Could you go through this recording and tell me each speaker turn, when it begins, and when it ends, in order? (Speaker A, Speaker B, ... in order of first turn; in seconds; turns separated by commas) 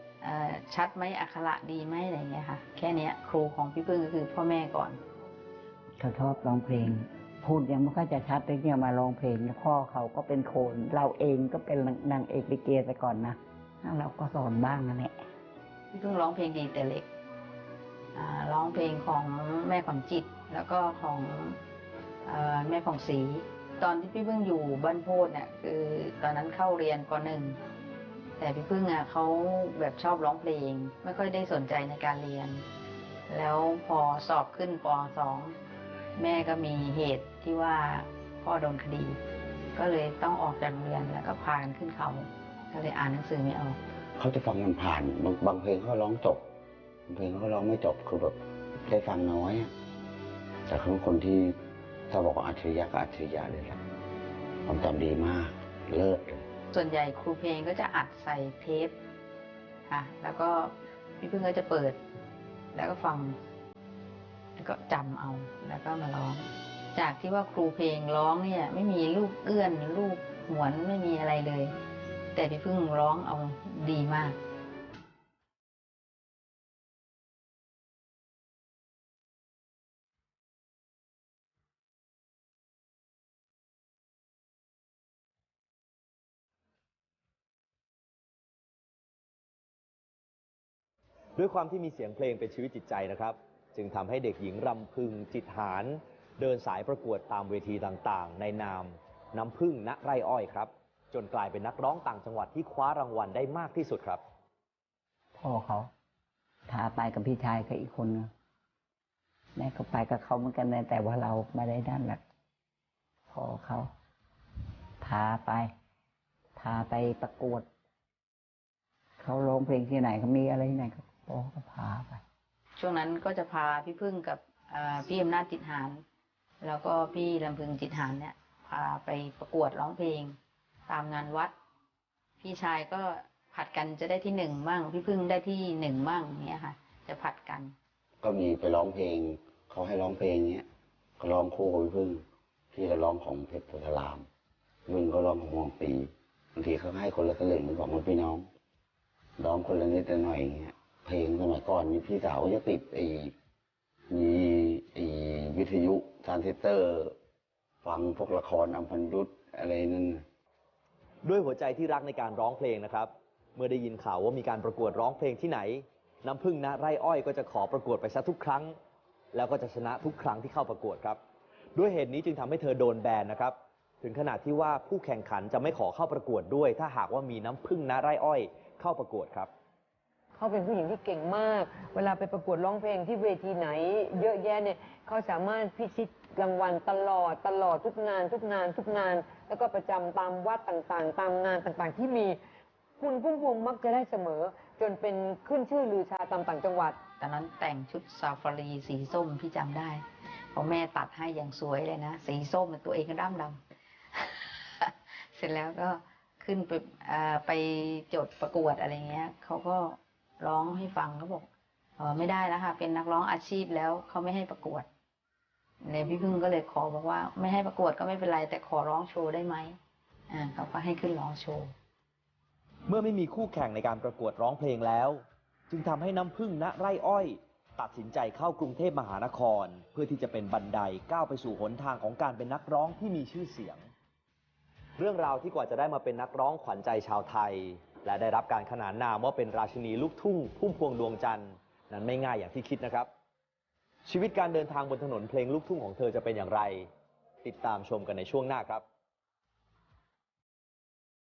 Speaker A: 0.2-5.0, Speaker B: 6.0-15.2, Speaker A: 15.9-17.1, Speaker A: 18.1-21.6, Speaker A: 22.2-27.6, Speaker A: 28.4-32.6, Speaker A: 33.3-35.5, Speaker A: 36.2-39.2, Speaker A: 39.8-43.8, Speaker C: 44.2-46.4, Speaker C: 47.1-49.7, Speaker C: 50.7-51.5, Speaker C: 52.1-53.8, Speaker C: 54.6-56.4, Speaker A: 56.7-59.0, Speaker A: 59.9-62.0, Speaker A: 62.7-63.4, Speaker A: 64.6-71.7, Speaker A: 72.3-74.4, Speaker D: 91.3-104.2, Speaker B: 105.4-105.9, Speaker B: 106.7-108.3, Speaker B: 109.6-112.2, Speaker B: 113.3-113.9, Speaker B: 115.0-115.7, Speaker B: 116.5-117.7, Speaker B: 119.2-122.2, Speaker A: 122.8-126.0, Speaker A: 126.6-130.3, Speaker A: 130.9-131.5, Speaker A: 132.4-137.7, Speaker C: 138.2-140.7, Speaker C: 141.2-144.2, Speaker C: 144.9-148.5, Speaker C: 149.4-153.3, Speaker C: 154.1-157.1, Speaker C: 157.8-160.2, Speaker D: 161.2-168.7, Speaker D: 169.3-171.2, Speaker D: 171.7-179.5, Speaker E: 180.3-192.4, Speaker E: 193.0-197.0, Speaker A: 197.2-203.6, Speaker A: 204.1-211.5, Speaker A: 212.0-214.8, Speaker A: 215.8-219.8, Speaker A: 220.3-221.7, Speaker D: 222.9-233.8, Speaker D: 235.0-243.1, Speaker D: 244.1-246.9, Speaker D: 247.4-248.8